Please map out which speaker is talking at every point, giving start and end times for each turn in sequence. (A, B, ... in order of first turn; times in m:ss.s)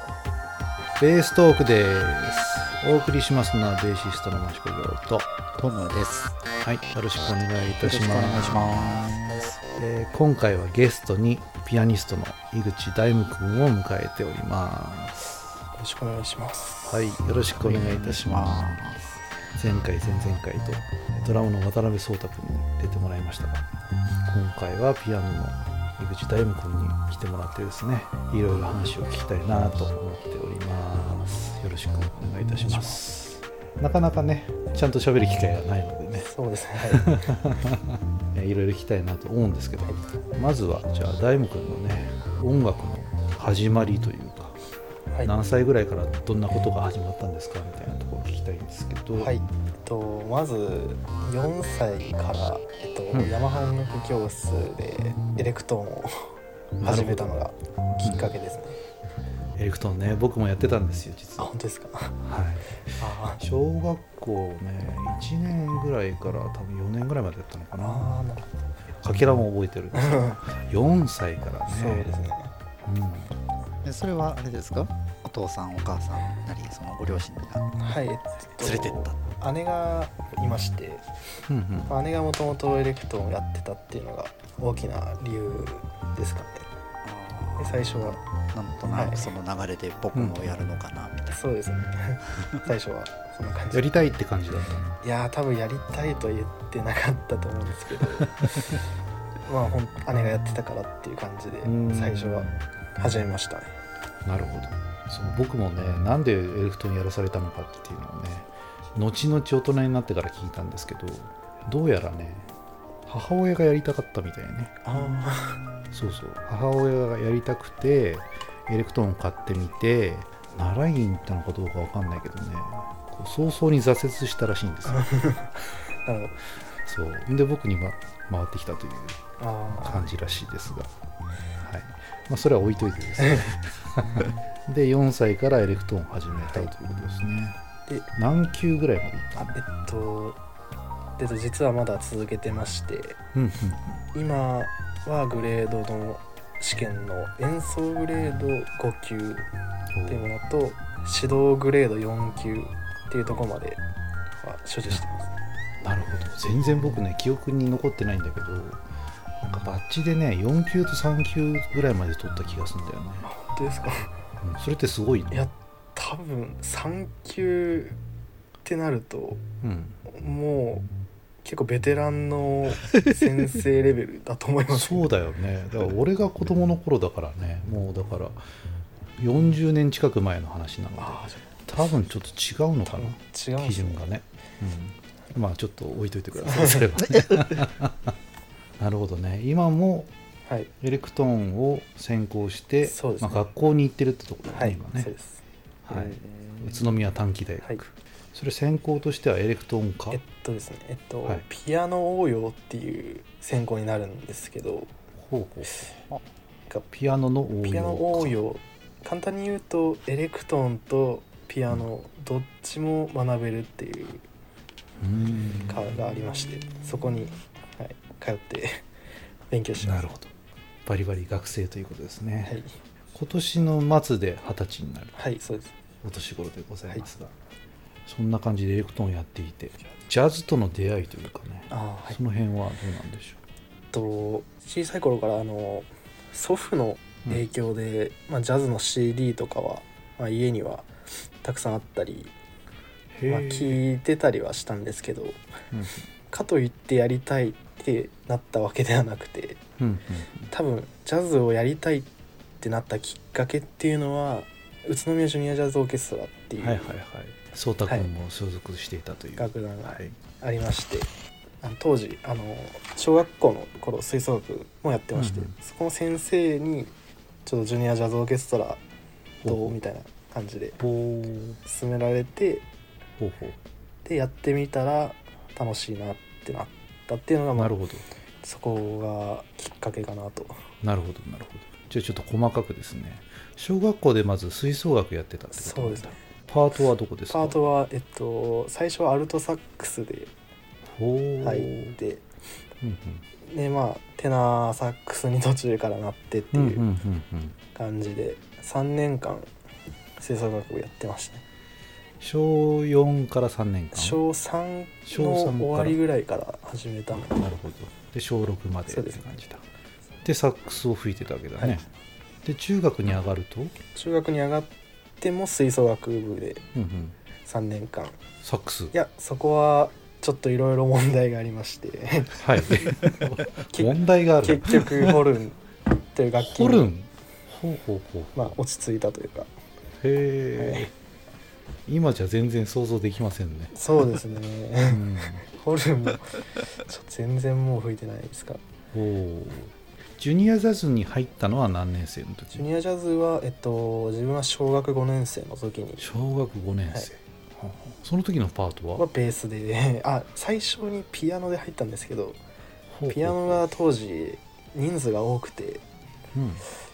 0:01.0-0:05.3 A
0:05.6-0:06.4 B
0:06.6-0:08.7 A
0:07.8-0:09.6 B
0:09.8-0:15.3 A
0:15.8-0:17.0 C
0:16.8-0:18.8 A
0:17.6-0:19.1 B
0:19.6-0:23.7 A
0:24.3-0:36.3 A
0:32.7-0:33.0 C
0:36.2-0:37.3 C
0:36.9-0:44.6 A
0:45.2-0:49.3 A
0:49.2-0:58.8 C
0:56.8-0:57.3 A
0:58.0-0:58.3 A
0:59.6-1:01.5 A
1:01.4-1:02.2 C
1:02.2-1:08.1 A
1:03.0-1:03.4 C
1:07.8-1:08.5 C
1:09.0-1:12.1 A
1:09.9-1:10.4 C
1:11.7-1:12.5 C
1:12.8-1:13.3 A
1:13.8-1:17.8 B
1:17.8-1:21.0 C
1:18.6-1:19.2 B
1:21.5-1:21.9 A
1:21.9-1:26.7 C
1:27.0-1:27.9 B
1:27.6-1:28.2 C
1:28.5-1:31.4 B
1:28.9-1:29.3 C
1:30.1-1:30.6 A
1:31.3-1:33.9 C
1:33.7-1:34.9 A
1:35.0-1:38.8 C
1:39.5-1:43.7 C
1:41.6-1:42.5 A
1:44.2-1:52.5 A
1:53.1-1:54.8 A
1:54.8-1:55.6 C
1:55.9-2:05.0 A
2:04.9-2:06.4 C
2:06.8-2:09.2 A
2:09.4-2:10.0 C
2:09.8-2:10.9 A
2:11.6-2:17.6 A
2:13.2-2:13.5 C
2:18.2-2:19.6 A
2:19.5-2:20.4 C
2:21.2-2:23.2 C
2:23.3-2:24.0 A
2:24.1-2:29.5 C
2:29.9-2:30.3 A
2:30.1-2:33.8 C
2:34.4-2:35.3 C
2:35.8-2:38.8 A
2:39.4-2:43.3 A
2:43.2-2:44.1 C
2:44.4-2:45.5 A
2:45.3-2:48.0 C
2:48.6-2:49.4 C
2:49.6-2:50.0 A
2:50.1-2:50.9 C
2:51.4-2:55.1 C
2:54.7-2:58.4 A
2:59.2-3:08.2 A
3:01.0-3:01.4 C
3:02.9-3:04.1 C
3:06.4-3:06.9 C
3:07.1-3:07.5 B
3:08.8-3:10.1 A
3:10.8-3:15.1 A
3:12.8-3:13.4 C
3:14.5-3:15.4 C
3:15.8-3:20.2 A
3:15.9-3:17.0 B
3:20.1-3:24.9 C
3:25.2-3:25.9 A
3:26.9-3:28.4 A
3:27.6-3:34.2 C
3:35.0-3:36.0 A
3:35.6-3:38.8 C
3:39.5-3:40.1 C
3:39.8-3:40.3 A
3:40.9-3:42.6 A
3:42.4-3:42.7 C
3:43.1-3:45.2 A
3:45.2-3:45.7 C
3:46.0-3:47.3 A
3:48.1-3:53.4 A
3:51.7-3:52.2 C
3:53.9-4:00.9 C
4:01.4-4:02.3 C
4:03.2-4:03.8 A
4:03.2-4:05.4 C
4:05.7-4:06.1 A
4:06.3-4:09.6 C
4:09.8-4:10.5 A
4:10.5-4:12.1 C
4:12.6-4:16.9 C
4:16.6-4:20.2 A
4:19.4-4:21.1 C
4:21.6-4:26.9 C
4:25.2-4:25.5 A
4:27.5-4:28.8 C
4:29.4-4:29.8 A
4:29.4-4:30.8 C
4:30.8-4:31.6 A
4:31.6-4:32.6 C
4:33.2-4:33.6 A
4:34.0-4:37.7 C
4:37.6-4:38.0 A
4:38.4-4:40.6 C
4:40.8-4:47.6 A
4:45.5-4:46.1 C
4:47.3-4:50.3 C
4:50.9-4:52.0 A
4:51.4-4:52.2 C
4:52.8-4:53.2 A
4:53.4-4:56.9 C
4:56.5-4:57.6 A
4:57.8-4:59.5 C
5:00.2-5:01.4 C
5:02.2-5:04.2 A
5:03.9-5:07.4 C
5:05.1-5:06.0 A
5:07.2-5:09.6 A
5:08.9-5:09.2 C
5:10.2-5:11.9 A
5:12.4-5:13.8 A
5:14.0-5:16.6 C
5:16.8-5:17.2 A
5:17.5-5:18.2 C
5:18.4-5:18.9 A
5:18.9-5:25.6 C
5:22.4-5:25.2 A
5:26.1-5:26.9 C
5:26.4-5:28.5 A
5:28.4-5:29.5 C
5:30.0-5:30.9 A
5:30.6-5:30.9 C
5:31.9-5:33.7 A
5:33.7-5:38.6 C
5:34.8-5:35.4 A
5:38.9-5:42.7 A
5:42.6-5:46.0 C
5:46.0-5:49.0 A
5:49.0-5:52.4 C
5:52.9-5:53.6 A
5:53.1-5:55.8 C
5:56.3-5:56.6 A